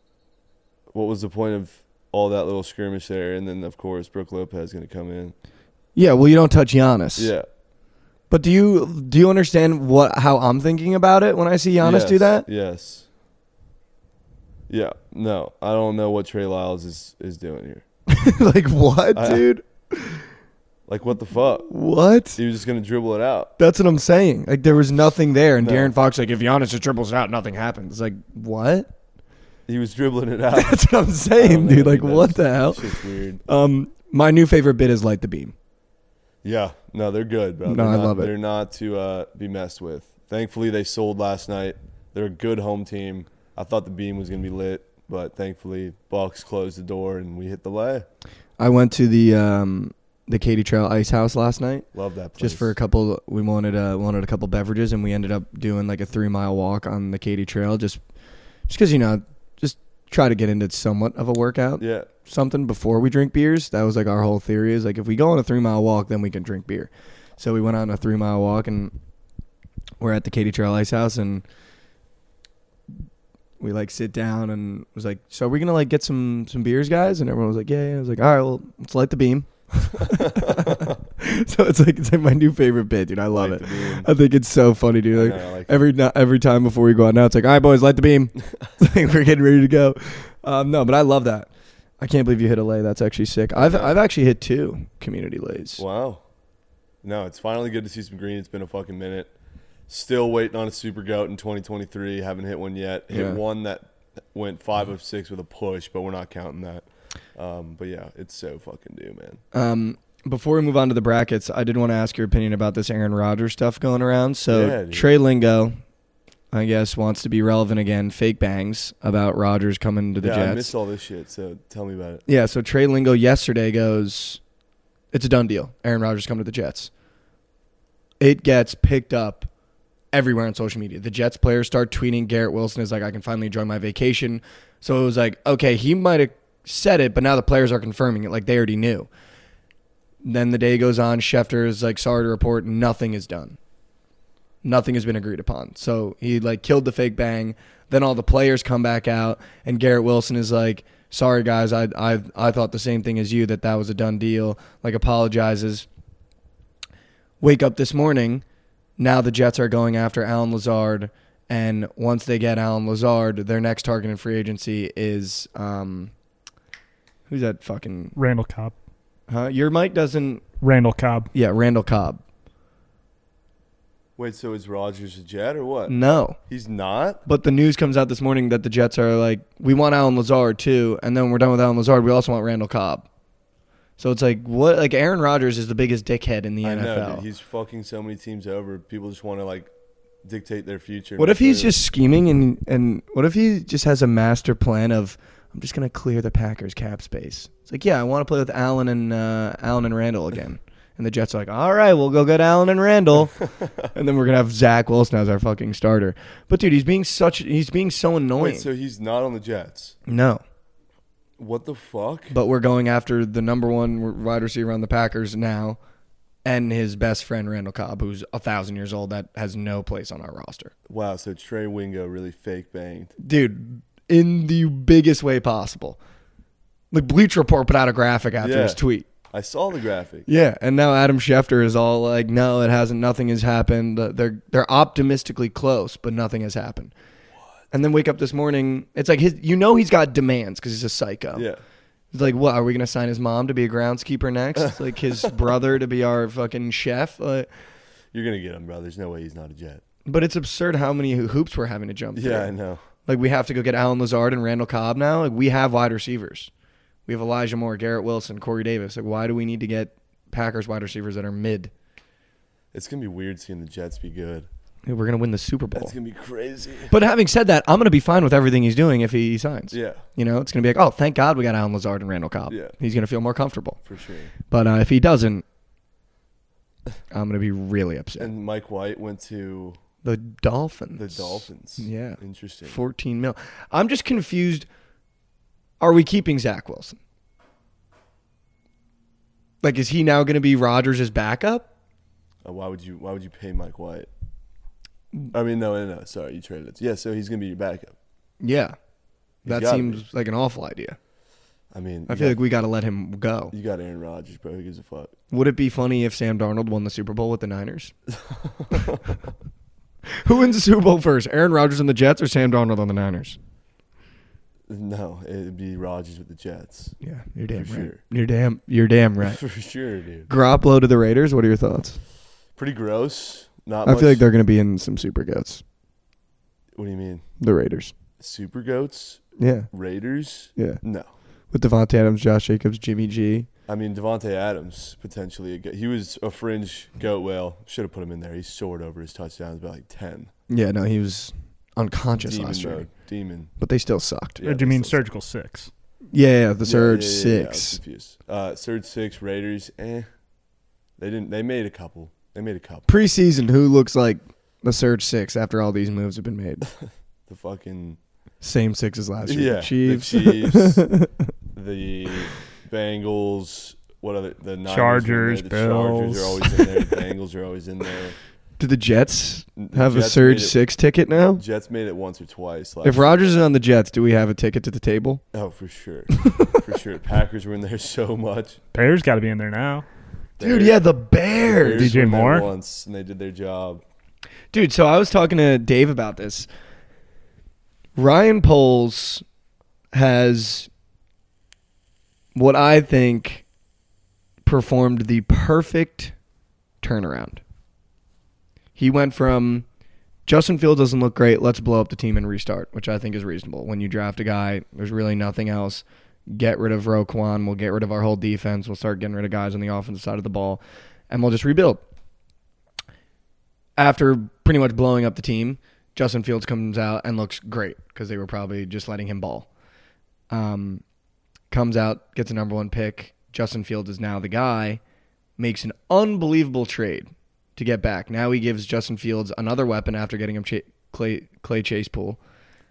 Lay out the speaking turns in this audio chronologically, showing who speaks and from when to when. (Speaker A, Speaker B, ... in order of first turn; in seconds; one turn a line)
Speaker A: 0.9-5.3
Speaker B: 5.9-7.3
Speaker A: 7.2-7.5
Speaker B: 8.3-12.4
Speaker A: 11.8-13.1
Speaker A: 14.7-17.8
Speaker B: 18.1-20.2
Speaker A: 19.1-19.4
Speaker A: 20.9-21.7
Speaker B: 21.7-22.4
Speaker A: 22.4-23.5
Speaker B: 23.6-28.9
Speaker A: 25.6-25.9
Speaker A: 29.7-30.8
Speaker B: 30.5-35.5
Speaker A: 31.4-33.4
Speaker A: 36.4-48.0
Speaker B: 37.6-38.3
Speaker B: 48.6-51.9
Speaker A: 51.9-52.7
Speaker B: 52.4-58.0
Speaker B: 58.7-68.9
Speaker A: 61.8-62.1
Speaker B: 70.0-71.4
Speaker B: 73.6-91.5
Speaker A: 80.1-80.9
Speaker A: 83.3-84.1
Speaker A: 85.1-85.8
Speaker B: 92.0-95.8
Speaker A: 93.5-94.0
Speaker A: 95.8-96.2
Speaker A: 97.0-99.3
Speaker A: 99.9-109.4
Speaker B: 103.1-103.4
Speaker B: 109.5-115.7
Speaker A: 114.5-115.1
Speaker B: 116.5-120.7
Speaker A: 120.2-122.2
Speaker B: 122.3-124.4
Speaker B: 125.1-126.9
Speaker B: 128.2-129.5
Speaker B: 130.1-139.1
Speaker B: 140.2-143.6
Speaker B: 144.6-155.9
Speaker B: 157.4-158.4
Speaker B: 159.0-166.1
Speaker B: 167.3-168.2
Speaker C: 168.2-168.7
Speaker B: 169.3-170.4
Speaker C: 170.6-171.3
Speaker B: 171.3-172.2
Speaker A: 174.2-175.9
Speaker B: 175.9-176.4
Speaker A: 176.5-177.2
Speaker B: 177.2-183.1
Speaker B: 184.0-187.2
Speaker A: 186.6-189.7
Speaker A: 190.2-191.8
Speaker B: 191.2-208.7
Speaker A: 208.4-210.0
Speaker B: 210.1-210.4
Speaker A: 211.4-212.3
Speaker B: 212.3-215.8
Speaker B: 216.4-220.7
Speaker A: 220.9-223.1
Speaker B: 223.2-226.0
Speaker B: 226.9-229.1
Speaker A: 228.4-228.8
Speaker A: 229.3-230.2
Speaker B: 230.3-236.9
Speaker B: 237.7-241.4
Speaker A: 241.3-241.6
Speaker B: 242.1-247.5
Speaker A: 244.6-245.3
Speaker A: 248.1-249.8
Speaker B: 250.1-252.5
Speaker A: 252.1-252.8
Speaker B: 253.0-256.5
Speaker B: 257.1-261.7
Speaker A: 262.7-264.5
Speaker B: 264.9-265.9
Speaker A: 265.7-266.9
Speaker B: 266.9-273.8
Speaker A: 269.7-270.0
Speaker A: 273.8-274.3
Speaker B: 274.5-275.4
Speaker B: 277.1-278.3
Speaker A: 278.2-279.8
Speaker B: 280.0-284.7
Speaker A: 281.0-282.8
Speaker B: 285.8-287.0
Speaker B: 289.6-291.7
Speaker A: 292.4-294.1
Speaker A: 295.3-297.9
Speaker B: 298.4-298.8
Speaker A: 299.4-300.0
Speaker B: 299.4-301.0
Speaker A: 301.7-302.4
Speaker B: 302.1-303.5
Speaker A: 303.5-305.1
Speaker B: 305.3-307.9
Speaker A: 308.2-309.0
Speaker B: 310.1-313.4
Speaker A: 314.7-316.9
Speaker B: 317.0-319.4
Speaker A: 317.5-318.0
Speaker A: 319.2-320.3
Speaker B: 320.3-322.0
Speaker A: 322.6-324.2
Speaker B: 323.8-325.6
Speaker A: 326.7-327.2
Speaker B: 327.4-327.9
Speaker A: 328.2-331.1
Speaker B: 329.4-329.7
Speaker B: 330.6-330.8
Speaker B: 331.5-333.5
Speaker A: 333.7-340.3
Speaker B: 340.5-342.9
Speaker A: 342.2-343.5
Speaker B: 343.6-344.4
Speaker A: 344.4-345.0
Speaker C: 344.4-345.7
Speaker B: 346.1-347.8
Speaker A: 346.6-350.1
Speaker A: 351.0-352.9
Speaker B: 352.9-356.7
Speaker A: 357.3-358.0
Speaker B: 358.4-361.1
Speaker A: 359.2-360.9
Speaker A: 361.5-368.2
Speaker C: 364.6-366.6
Speaker B: 368.6-371.4
Speaker A: 369.6-370.6
Speaker A: 371.4-373.4
Speaker B: 372.8-375.2
Speaker A: 375.3-378.6
Speaker B: 376.1-376.6
Speaker C: 378.7-379.9
Speaker A: 380.4-380.8
Speaker B: 380.4-382.1
Speaker A: 381.4-383.8
Speaker C: 381.6-382.5
Speaker B: 384.5-386.5
Speaker B: 388.0-389.2
Speaker B: 389.9-390.7
Speaker B: 392.3-393.4
Speaker B: 394.4-396.1
Speaker B: 396.8-397.4
Speaker B: 398.8-399.6
Speaker B: 400.2-411.8
Speaker B: 413.8-419.5
Speaker B: 420.3-420.8
Speaker B: 421.5-424.8
Speaker B: 425.4-432.2